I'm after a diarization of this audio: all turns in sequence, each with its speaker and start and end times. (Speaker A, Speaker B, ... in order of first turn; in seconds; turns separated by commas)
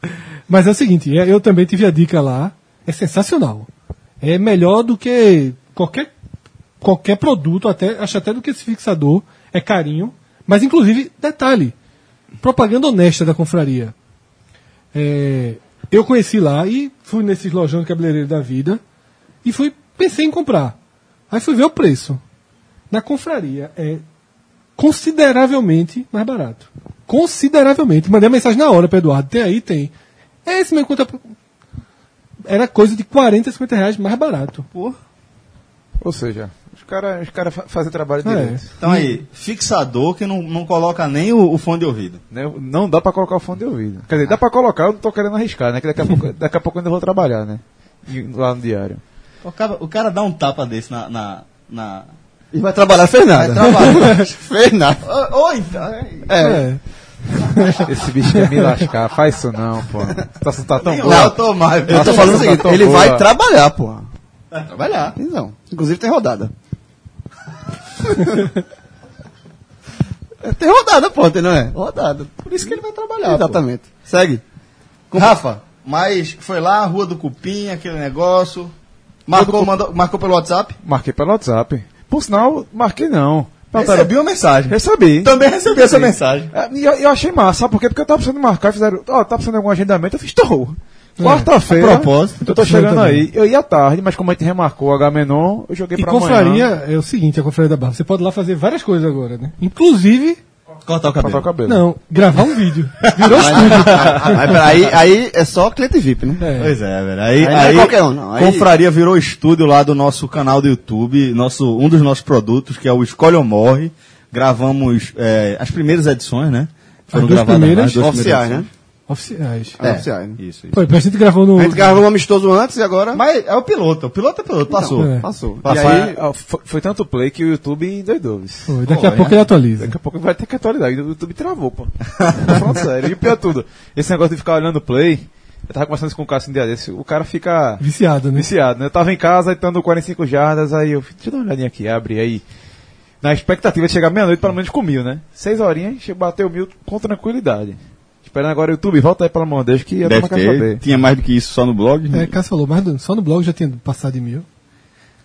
Speaker A: 0.5-3.7, Speaker A: 4.2-6.1, Speaker A: 6.8-11.7, Speaker A: 12.4-13.9, Speaker A: 14.9-18.8, Speaker A: 19.4-20.8, Speaker A: 21.3-22.2, Speaker A: 22.9-24.0, Speaker A: 24.8-29.9, Speaker A: 30.4-31.2, Speaker A: 32.5-34.6, Speaker B: 36.0-38.7, Speaker A: 38.2-39.0, Speaker C: 38.8-42.2, Speaker B: 42.3-49.0, Speaker C: 49.4-52.1, Speaker D: 52.5-55.0, Speaker C: 53.3-54.3, Speaker C: 55.0-56.3, Speaker D: 56.2-56.7, Speaker A: 56.4-56.8, Speaker A: 57.4-57.8, Speaker B: 57.8-63.2, Speaker A: 58.4-58.7, Speaker C: 60.8-62.6, Speaker D: 61.0-64.1, Speaker C: 64.5-65.2, Speaker D: 65.2-66.5, Speaker D: 68.2-68.4, Speaker D: 70.4-72.4, Speaker C: 72.4-73.6, Speaker D: 73.2-74.4, Speaker C: 75.1-78.7, Speaker C: 79.3-80.8, Speaker B: 79.3-79.7, Speaker B: 80.8-84.1, Speaker C: 83.7-86.5, Speaker B: 84.7-96.7, Speaker A: 91.2-91.5, Speaker C: 91.7-92.4, Speaker A: 92.5-93.3, Speaker A: 96.0-100.4, Speaker C: 100.8-101.5, Speaker B: 101.2-101.8, Speaker A: 101.7-104.3, Speaker C: 103.0-104.7, Speaker D: 103.3-106.4, Speaker B: 103.9-104.2, Speaker A: 106.4-106.7, Speaker C: 106.6-118.7, Speaker D: 107.4-108.7, Speaker A: 117.1-118.0, Speaker D: 118.0-118.7, Speaker A: 119.1-119.8, Speaker D: 119.8-120.4, Speaker C: 119.8-120.8, Speaker A: 120.7-121.9, Speaker D: 121.5-123.2, Speaker C: 123.1-126.0, Speaker D: 124.7-126.2, Speaker A: 125.0-125.2, Speaker B: 125.7-128.7, Speaker A: 128.7-129.9, Speaker C: 128.8-129.4, Speaker B: 129.8-137.8, Speaker C: 132.2-132.6, Speaker A: 137.8-138.5, Speaker B: 138.3-142.4, Speaker B: 143.2-150.8, Speaker E: 150.0-152.3, Speaker A: 152.1-154.4